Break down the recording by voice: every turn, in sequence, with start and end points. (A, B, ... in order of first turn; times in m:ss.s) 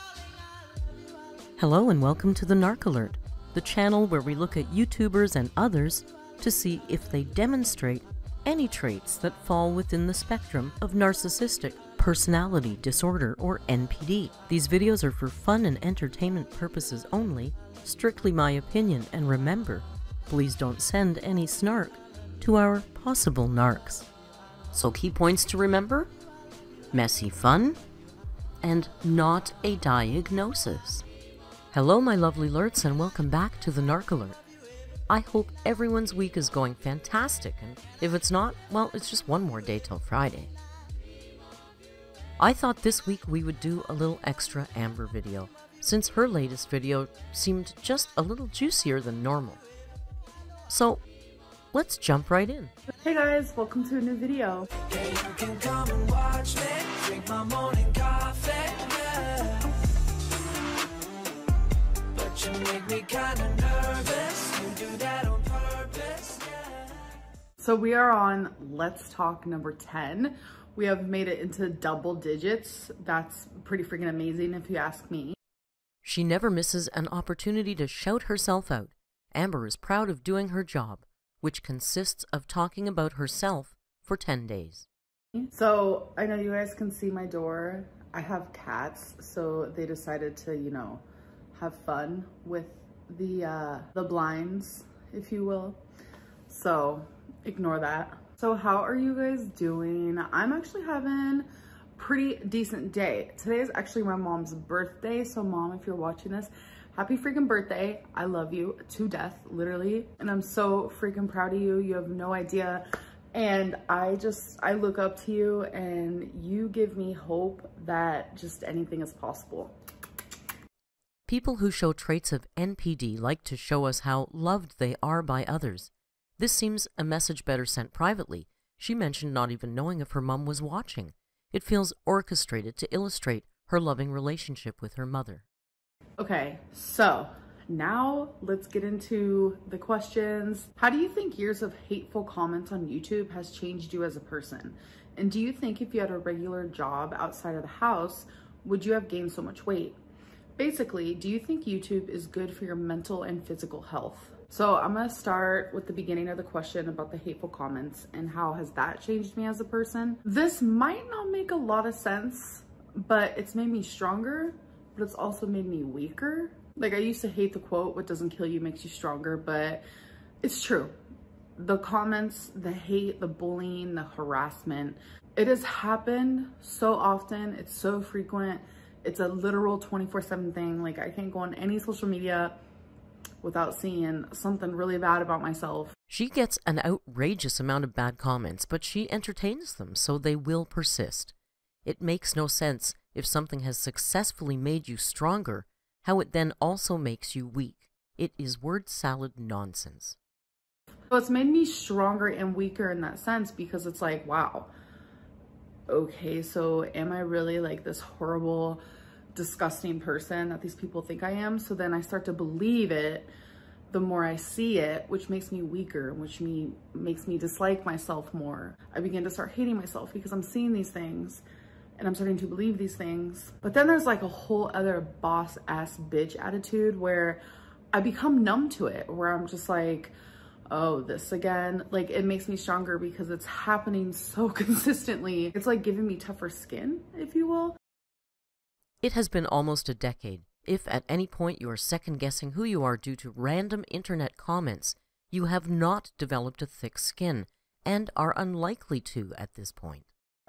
0:01.6-0:24.1 A
0:24.7-0:26.1 A
0:26.9-0:27.8 A
0:28.6-0:31.1 A
0:31.7-0:34.4 A
0:35.1-0:40.5 A
0:42.4-0:49.6 A
0:50.7-0:51.0 A
0:51.7-0:52.7 A
0:53.0-0:54.7 B
0:54.9-0:59.8 C
1:02.1-1:07.0 C
1:07.6-1:15.4 B
1:16.0-1:24.9 A
1:25.5-1:35.8 B
1:36.5-1:59.7 B
2:01.3-2:15.4 A
2:16.2-2:30.0 B
2:30.6-2:49.8 B
2:50.4-2:50.9 B
2:51.6-3:02.6 B
3:03.4-3:06.0 B
3:06.1-3:11.3 A
3:11.8-3:20.2 A
3:21.1-3:24.7 B
3:25.9-3:28.8 B
3:29.4-3:33.3 B
3:33.9-3:41.4 B
3:42.0-3:47.4 B
3:47.9-3:50.1 B
3:50.7-3:57.8 B
3:59.0-4:10.1 A